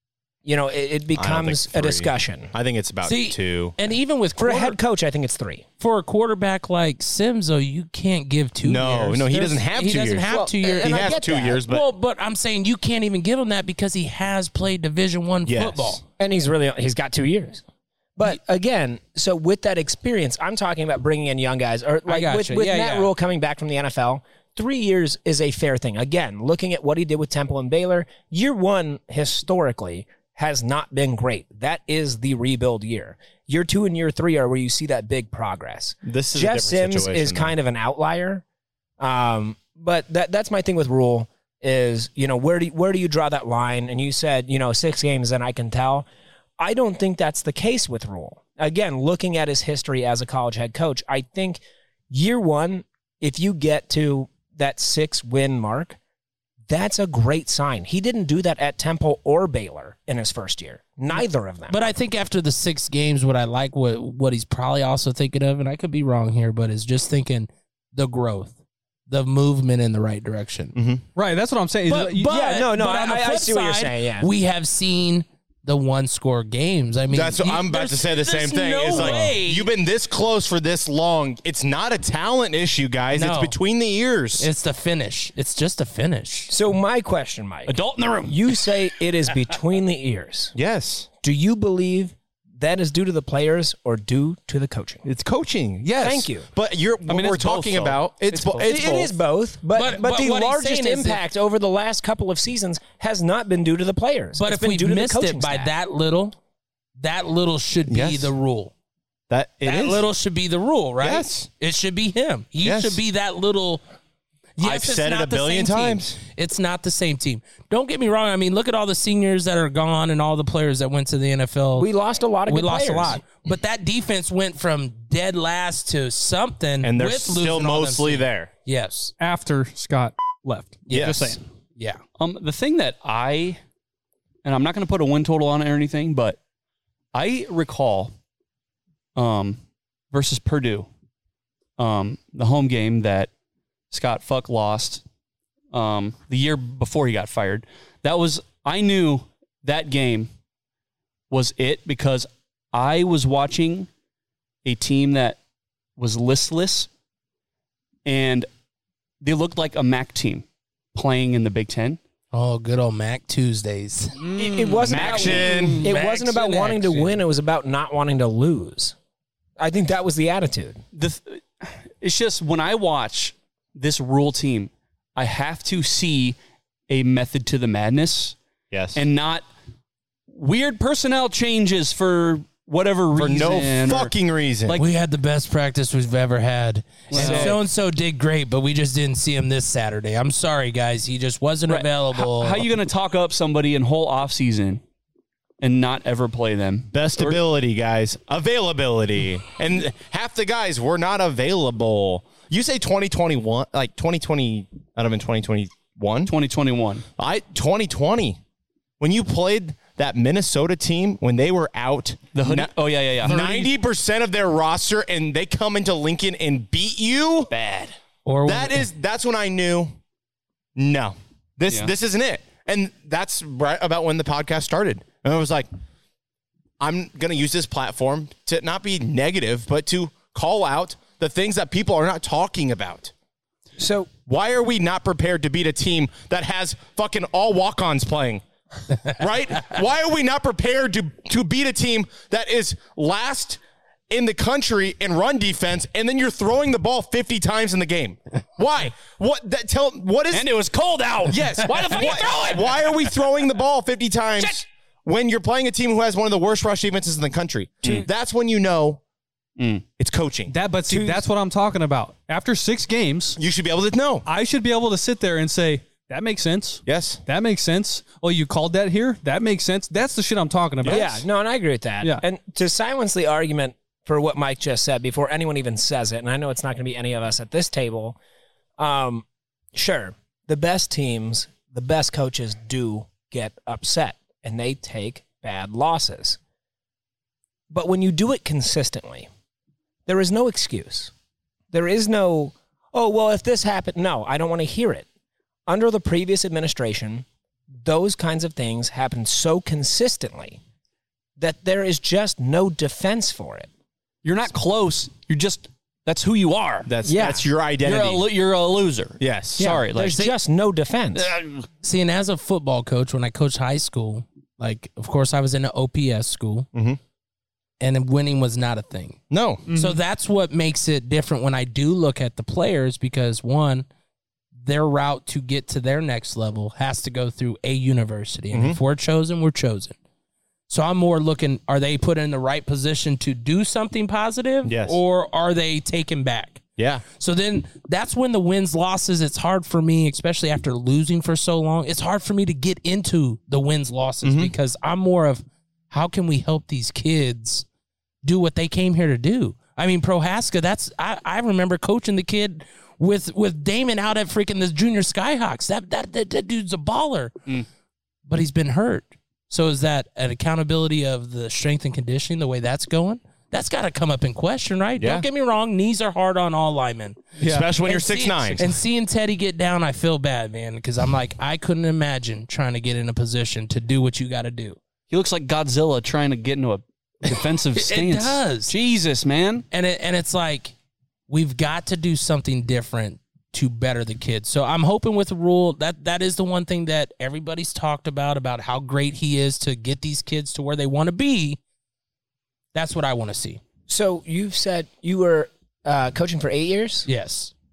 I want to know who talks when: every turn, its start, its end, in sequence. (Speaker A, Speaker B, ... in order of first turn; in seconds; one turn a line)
Speaker A: 0.5-2.5
Speaker B: 1.1-3.8
Speaker C: 3.0-4.8
Speaker A: 4.4-5.7
Speaker C: 5.8-16.0
Speaker B: 8.6-11.9
Speaker A: 10.3-11.6
Speaker B: 15.5-16.0
Speaker A: 16.2-17.6
Speaker A: 18.1-38.4
Speaker C: 22.1-23.1
Speaker B: 36.0-37.5
Speaker A: 39.0-46.0
Speaker A: 46.6-56.0
Speaker A: 56.7-61.9
Speaker C: 61.7-68.5
Speaker C: 69.1-70.7
Speaker B: 70.7-71.0
Speaker D: 71.2-72.3
Speaker C: 71.9-79.7
Speaker A: 72.3-74.3
Speaker B: 77.1-84.5
Speaker C: 83.1-83.5
Speaker C: 84.4-86.5
Speaker A: 86.5-90.5
Speaker E: 87.7-88.7
Speaker B: 90.5-91.1
Speaker A: 91.2-95.0
Speaker B: 95.0-99.1
Speaker A: 96.0-96.5
Speaker E: 97.1-98.8
Speaker A: 98.6-105.7
Speaker C: 99.7-101.2
Speaker C: 104.4-106.3
Speaker C: 107.0-108.7
Speaker B: 107.9-108.3
Speaker B: 109.3-110.0
Speaker C: 109.6-113.8
Speaker B: 111.0-111.5
Speaker B: 112.6-113.0
Speaker C: 114.6-121.9
Speaker B: 114.6-116.2
Speaker A: 121.8-123.2
Speaker C: 122.5-129.1
Speaker B: 126.8-128.5
Speaker D: 129.2-131.4
Speaker B: 130.9-131.4
Speaker E: 132.2-133.6
Speaker E: 134.4-136.4
Speaker E: 137.1-138.1
Speaker E: 139.2-139.6
Speaker E: 140.1-140.9
Speaker E: 141.8-143.3
Speaker E: 143.9-145.0
Speaker E: 145.7-150.3
Speaker E: 151.3-153.9
Speaker E: 154.6-155.4
Speaker E: 156.0-156.9
Speaker E: 158.1-158.5
Speaker E: 159.2-162.0
Speaker C: 162.3-164.2
Speaker A: 164.4-168.9
Speaker E: 164.8-165.4
Speaker B: 164.9-165.9
Speaker C: 165.8-167.2
Speaker A: 169.6-170.8
Speaker E: 170.9-176.4
Speaker E: 176.9-178.4
Speaker B: 178.7-179.0
Speaker E: 178.9-179.4
Speaker E: 180.3-184.1
Speaker B: 183.2-184.8
Speaker C: 184.8-192.6
Speaker E: 187.1-187.6
Speaker A: 187.1-187.6
Speaker E: 191.7-194.8
Speaker E: 195.6-197.4
Speaker B: 196.9-206.3
Speaker E: 206.3-207.1
Speaker B: 207.2-208.4
Speaker B: 209.0-217.5
Speaker E: 212.3-213.4
Speaker D: 213.3-213.7
Speaker E: 217.5-217.9
Speaker C: 218.3-218.9
Speaker B: 218.4-219.9
Speaker B: 220.8-225.7
Speaker B: 226.8-233.1
Speaker A: 233.8-234.1
Speaker B: 234.3-238.4
Speaker B: 239.1-243.6
Speaker B: 244.1-250.5
Speaker E: 250.3-253.1
Speaker B: 251.3-259.0
Speaker E: 259.6-259.8
Speaker B: 260.0-260.6
Speaker D: 260.5-263.4
Speaker A: 260.9-261.2
Speaker B: 263.4-264.3
Speaker D: 264.3-271.1
Speaker B: 266.9-267.2
Speaker A: 270.8-278.2
Speaker A: 278.8-286.4
Speaker A: 287.7-289.3
Speaker A: 290.1-291.1
Speaker A: 291.7-295.1
Speaker A: 295.7-300.6
Speaker A: 301.4-303.7
Speaker E: 304.2-306.9
Speaker B: 306.9-308.2
Speaker A: 307.1-307.4
Speaker E: 307.8-310.3
Speaker B: 309.2-309.7
Speaker A: 309.6-311.3
Speaker E: 311.1-311.6
Speaker C: 311.8-316.7
Speaker B: 316.7-317.0
Speaker C: 317.8-319.2
Speaker B: 319.3-319.6
Speaker D: 319.7-320.0
Speaker C: 319.7-323.9
Speaker C: 324.6-329.9
Speaker B: 328.5-328.8
Speaker C: 330.7-336.6
Speaker B: 334.6-335.0
Speaker B: 336.8-337.0
Speaker C: 337.2-347.6
Speaker B: 344.2-344.5
Speaker C: 348.2-357.3
Speaker C: 358.3-367.2
Speaker B: 365.0-365.2
Speaker D: 367.4-367.7
Speaker B: 367.4-368.8
Speaker C: 367.8-374.8
Speaker E: 375.1-379.6
Speaker C: 377.3-378.7
Speaker C: 379.7-380.7
Speaker C: 381.3-391.6
Speaker C: 392.7-393.6
Speaker A: 393.9-397.1
Speaker C: 397.1-397.5